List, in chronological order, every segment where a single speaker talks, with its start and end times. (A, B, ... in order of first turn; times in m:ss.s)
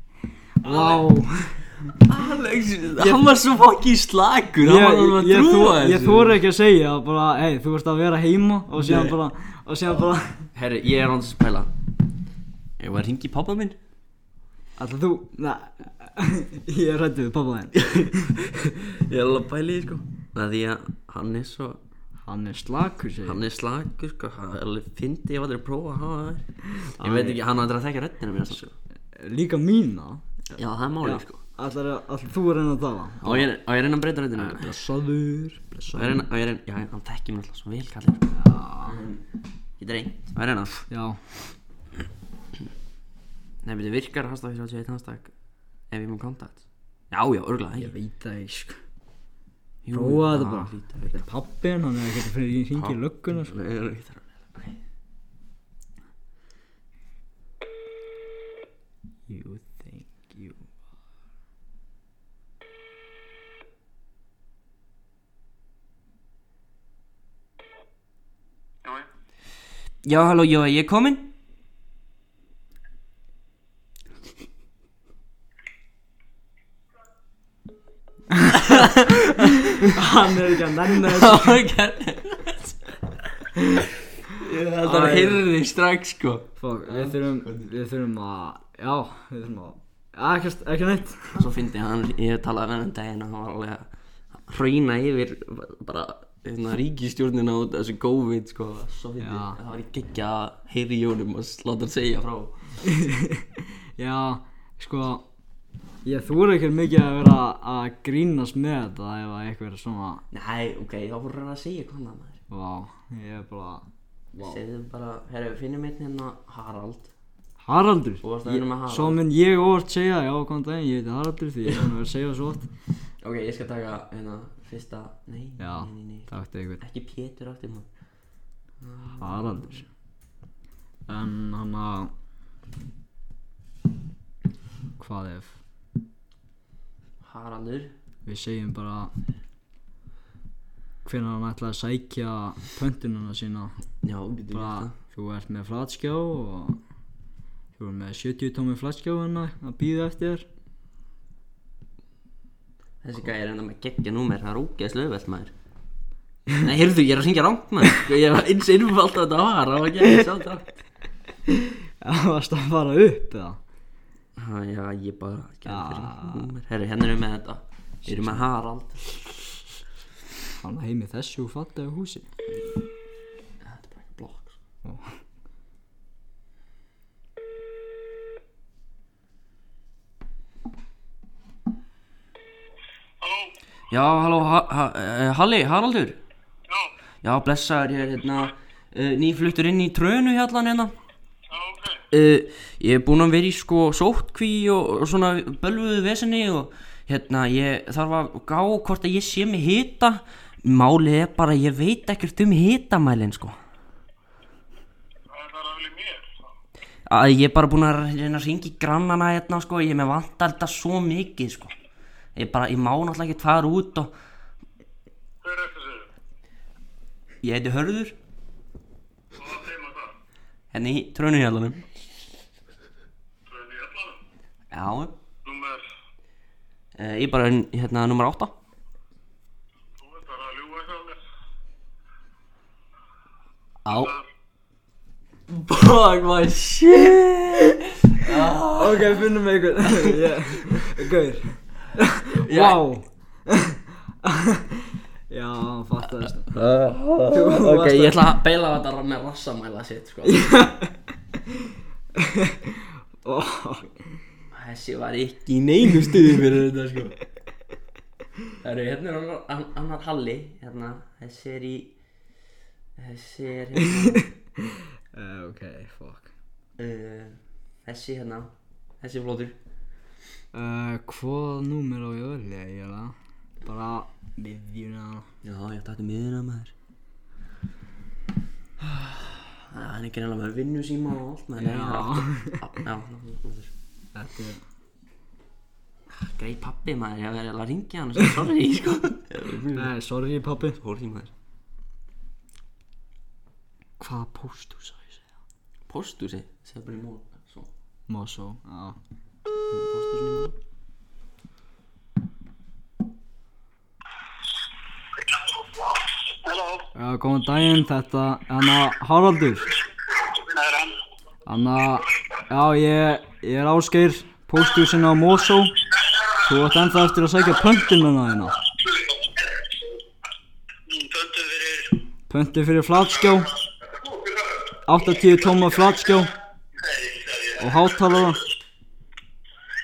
0:00.6-0:01.7 A
0:01.9-0:06.4 B
0:04.6-0:10.5 A
0:08.8-0:09.2 B
0:10.5-0:11.7 B
0:12.8-0:13.8 B
0:14.8-0:18.4 A
0:17.8-0:21.8 B
0:22.2-0:23.4 A
0:23.2-0:28.7 B
0:26.8-0:27.4 A
0:29.1-0:30.3 A
0:30.5-0:31.4 B
0:31.0-0:33.5 A
0:33.2-0:34.8 B
0:34.4-0:36.2 A
0:35.9-0:39.2 B
0:38.3-0:39.0 A
0:39.8-0:40.8 B
0:40.9-0:41.2 A
0:43.6-0:45.3 B
0:45.9-0:47.9 B
0:47.8-0:48.8 A
0:49.8-0:51.2 B
0:49.9-0:53.5 A
0:52.7-0:54.8 B
0:59.3-1:00.7 A
1:10.0-1:11.3 B
1:18.3-1:18.6 A
1:18.5-1:19.9 B
1:19.8-1:21.6 A
1:20.8-1:22.8 B
1:24.3-1:27.7 B
1:24.8-1:25.4 A
1:26.6-1:31.4 A
1:31.3-1:42.6 B
1:39.2-1:39.6 A
1:42.8-1:45.2 A
1:46.0-1:50.2 A
1:50.3-1:52.4 B
1:52.5-1:54.6 A
1:54.4-1:57.1 B
1:57.6-2:02.7 A
1:58.2-1:59.2 B
2:03.2-2:07.9 B
2:05.6-2:06.8 A
2:08.8-2:09.8 B
2:09.2-2:09.9 A
2:11.1-2:12.1 A
2:15.0-2:15.6 A
2:17.2-2:17.9 B
2:18.2-2:19.1 A
2:21.0-2:23.7 A
2:24.0-2:24.9 B
2:24.5-2:26.8 A
2:27.8-2:30.4 A
2:33.0-2:35.5 B
2:36.6-2:40.7 B
2:41.5-2:43.6 A
2:44.4-2:49.1 B
2:45.6-2:46.5 A
2:48.0-2:48.4 A
2:50.6-2:52.3 A
2:53.6-2:54.6 B
2:54.8-2:55.2 A
3:03.2-3:03.5 C
3:03.9-3:06.2 B
3:07.2-3:10.9 B
3:11.5-3:12.0 C
3:12.1-3:23.6 B
3:25.3-3:26.2 C
3:27.0-3:31.7 B
3:32.3-3:34.1 B
3:35.4-3:36.1 C
3:37.4-3:38.2 B
3:39.4-3:40.1 C
3:40.7-3:41.9 B
3:43.5-3:44.2 C
3:44.7-3:45.1 B
3:45.4-3:45.8 C
3:46.9-3:48.5 B
3:50.0-3:51.2 C
3:53.8-3:54.2 B
3:55.5-3:59.3 B
3:58.7-4:06.5 A
3:59.8-4:00.9 B
4:02.3-4:02.9 B
4:06.2-4:10.5 B
4:07.3-4:08.2 A
4:10.2-4:14.2 A
4:14.5-4:17.1 B
4:18.6-4:21.9 B
4:23.0-4:24.3 B
4:23.8-4:26.3 A
4:26.8-4:29.6 B
4:30.5-4:35.3 A
4:35.4-4:36.7 B
4:38.8-4:43.7 B
4:41.6-4:42.6 A
4:44.1-4:44.6 A
4:46.1-4:49.9 B
4:49.7-4:50.8 A
4:50.7-4:51.3 B
4:54.0-4:55.2 A
4:55.9-4:57.7 B
4:58.1-4:59.0 A
4:59.7-5:00.5 B
5:06.4-5:06.8 C
5:06.9-5:09.7 A
5:10.2-5:11.0 C
5:11.4-5:15.8 A
5:16.4-5:18.6 A
5:20.9-5:22.0 C
5:22.3-5:23.5 A
5:24.9-5:26.3 A
5:26.8-5:27.5 C
5:27.6-5:28.4 A